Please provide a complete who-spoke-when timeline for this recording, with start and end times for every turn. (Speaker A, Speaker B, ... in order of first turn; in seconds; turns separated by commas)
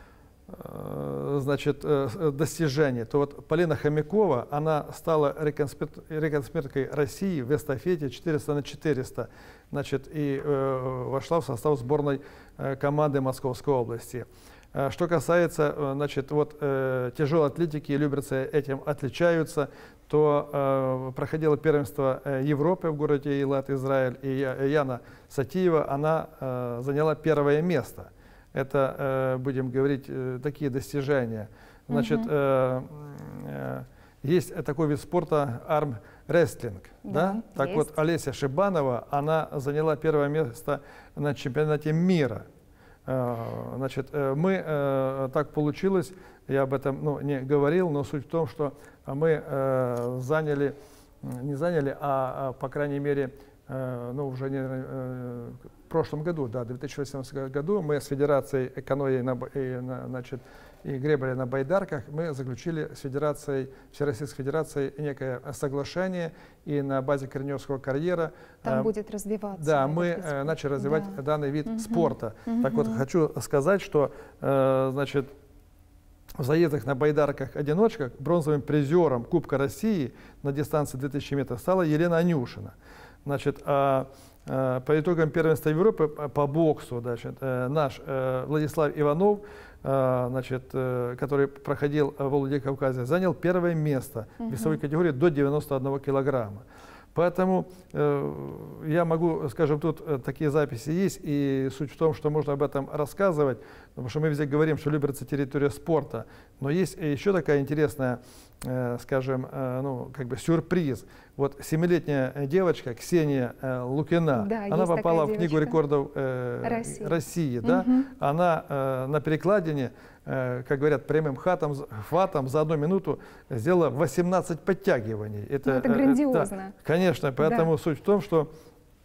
Speaker A: 0.5-42.5, Speaker B: 31.9-32.3, Speaker B: 37.0-37.9, Speaker A: 43.0-68.9, Speaker B: 68.6-73.0, Speaker A: 69.5-75.3, Speaker A: 76.4-128.5, Speaker B: 94.4-94.8, Speaker B: 114.3-115.8, Speaker B: 116.6-118.1, Speaker B: 125.6-126.7, Speaker B: 127.4-127.7